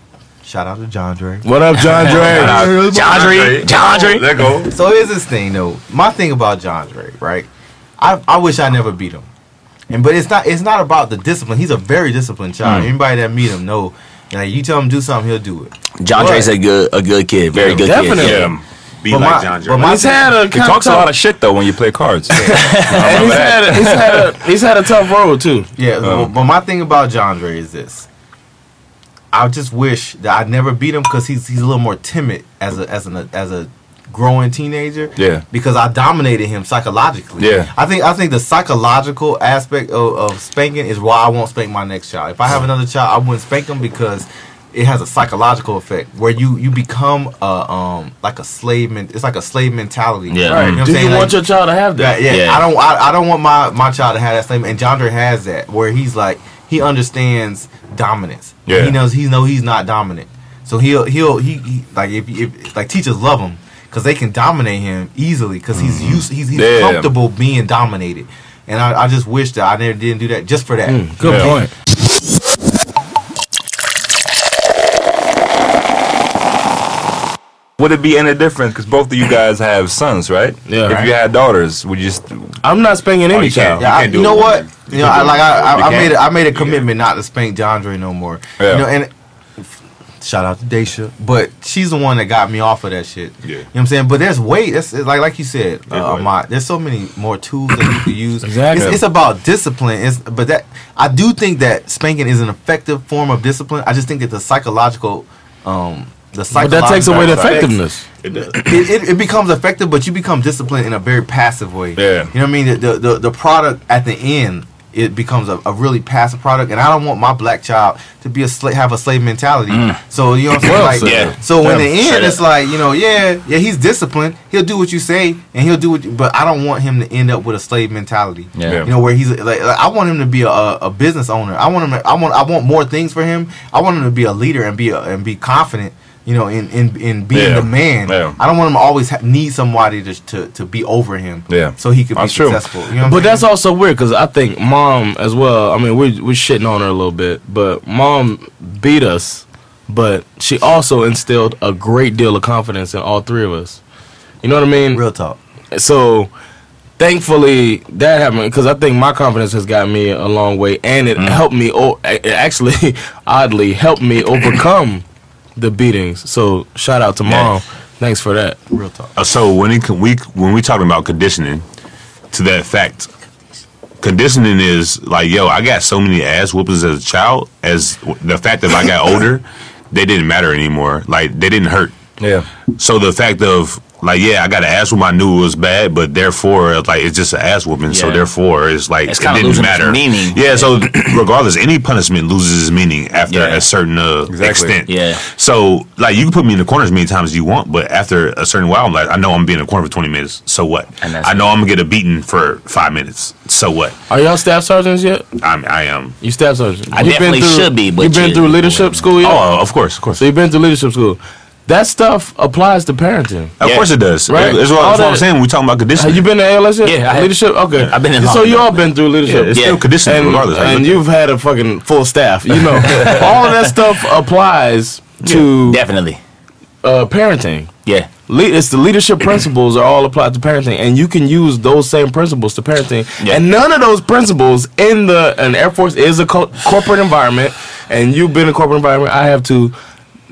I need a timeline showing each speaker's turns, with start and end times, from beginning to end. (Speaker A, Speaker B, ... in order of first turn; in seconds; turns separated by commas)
Speaker A: 0.4-3.3, Speaker B: 1.4-2.8, Speaker C: 2.1-4.7, Speaker D: 2.1-4.3, Speaker E: 2.3-4.6, Speaker A: 4.7-7.5, Speaker A: 8.0-9.3, Speaker A: 9.9-15.7, Speaker C: 12.6-12.9, Speaker D: 16.0-18.5, Speaker B: 16.1-16.5, Speaker C: 17.5-18.6, Speaker B: 17.7-18.5, Speaker E: 19.0-19.9, Speaker A: 19.1-20.3, Speaker B: 19.8-21.1, Speaker C: 20.5-24.3, Speaker D: 22.5-23.4, Speaker B: 22.9-25.7, Speaker A: 25.8-28.1, Speaker C: 26.0-26.3, Speaker A: 29.3-51.4, Speaker C: 35.2-35.4, Speaker C: 37.4-37.7, Speaker D: 50.3-50.8, Speaker B: 50.5-52.2, Speaker A: 51.9-71.6, Speaker D: 52.2-52.6, Speaker C: 58.7-59.0, Speaker C: 65.7-67.1, Speaker B: 70.9-71.7, Speaker C: 71.2-71.5, Speaker C: 77.8-82.5, Speaker B: 80.7-81.1, Speaker B: 82.6-83.9, Speaker C: 83.3-83.7, Speaker E: 83.3-86.8, Speaker A: 83.8-107.8, Speaker C: 85.7-86.2, Speaker C: 88.6-88.9, Speaker E: 95.9-96.3, Speaker B: 98.4-99.0, Speaker B: 106.5-108.0, Speaker C: 107.1-107.7, Speaker E: 108.2-108.6, Speaker A: 108.4-143.4, Speaker C: 112.0-112.3, Speaker D: 119.7-120.0, Speaker D: 120.6-121.3, Speaker B: 120.7-121.3, Speaker C: 121.6-121.9, Speaker D: 122.0-122.4, Speaker D: 128.6-128.8, Speaker C: 128.7-128.9, Speaker C: 137.3-138.4, Speaker C: 141.5-142.6, Speaker B: 143.0-153.8, Speaker B: 154.4-155.0, Speaker A: 154.9-155.4, Speaker B: 155.7-156.3, Speaker B: 157.0-165.0, Speaker B: 165.6-168.6, Speaker E: 167.2-167.5, Speaker A: 168.7-169.1, Speaker E: 169.1-171.6, Speaker E: 172.3-173.1, Speaker E: 174.0-181.9, Speaker C: 182.2-182.5, Speaker E: 182.8-203.9, Speaker D: 187.9-188.3, Speaker D: 189.1-191.2, Speaker D: 193.3-193.7, Speaker C: 194.3-194.8, Speaker D: 194.8-195.2, Speaker D: 201.0-201.5, Speaker B: 204.1-205.3, Speaker E: 205.4-206.2, Speaker B: 206.2-209.7, Speaker D: 206.9-209.0, Speaker E: 209.2-210.2, Speaker B: 210.2-213.5, Speaker E: 213.6-216.2, Speaker B: 214.3-215.3, Speaker B: 216.0-225.8, Speaker D: 216.8-218.9, Speaker E: 219.2-221.0, Speaker D: 219.5-219.8, Speaker D: 222.9-223.2, Speaker D: 225.2-226.2, Speaker B: 226.8-227.7, Speaker B: 228.2-239.7